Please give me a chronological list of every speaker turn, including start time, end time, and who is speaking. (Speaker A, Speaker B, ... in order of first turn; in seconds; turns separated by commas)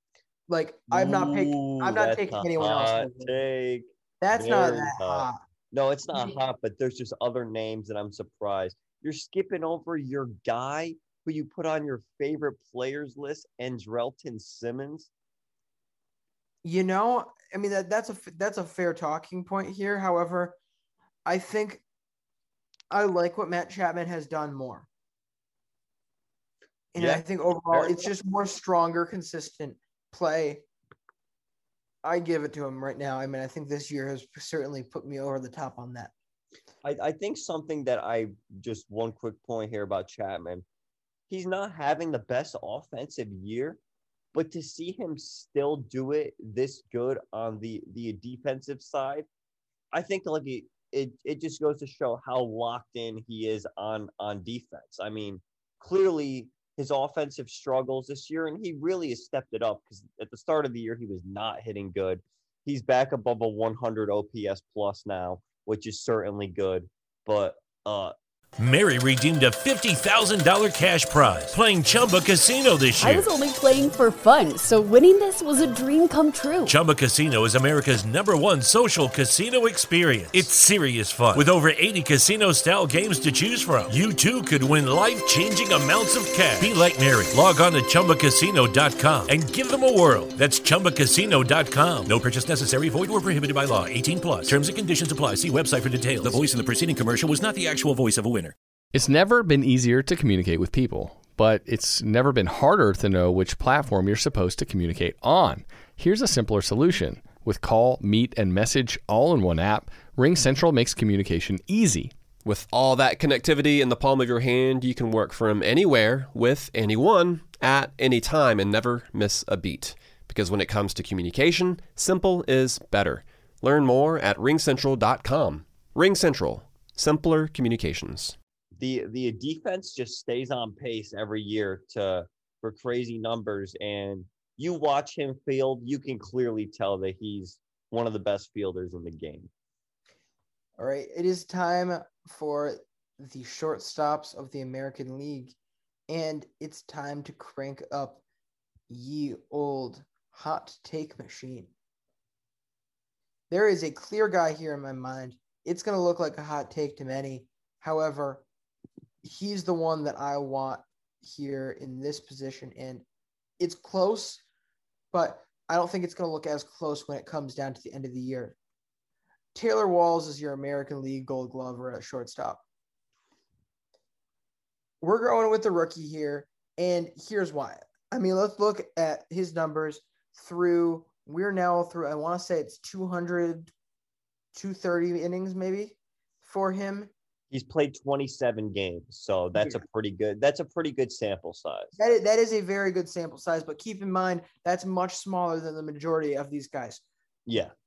Speaker A: 0.5-3.4, Speaker B: 0.9-15.1, Speaker A: 4.2-5.4, Speaker A: 6.1-6.4, Speaker A: 16.6-20.6, Speaker A: 21.2-21.8, Speaker A: 22.9-24.9, Speaker A: 26.9-30.6, Speaker B: 26.9-28.1, Speaker A: 32.0-36.1, Speaker B: 36.8-40.6, Speaker B: 41.3-43.8, Speaker B: 44.3-49.3, Speaker B: 49.9-68.1, Speaker C: 68.6-73.3, Speaker D: 73.0-76.7, Speaker C: 76.7-98.5, Speaker E: 98.9-112.2, Speaker F: 112.4-128.3, Speaker B: 128.8-139.5, Speaker A: 140.8-145.5, Speaker A: 146.1-148.2, Speaker A: 148.9-151.7, Speaker A: 153.5-158.4, Speaker A: 159.2-163.0, Speaker A: 163.6-164.4, Speaker A: 165.1-168.6, Speaker A: 169.5-172.6, Speaker A: 175.0-183.7, Speaker A: 184.5-187.1, Speaker B: 187.5-191.9, Speaker A: 189.6-189.8, Speaker A: 192.0-197.0, Speaker B: 197.5-197.7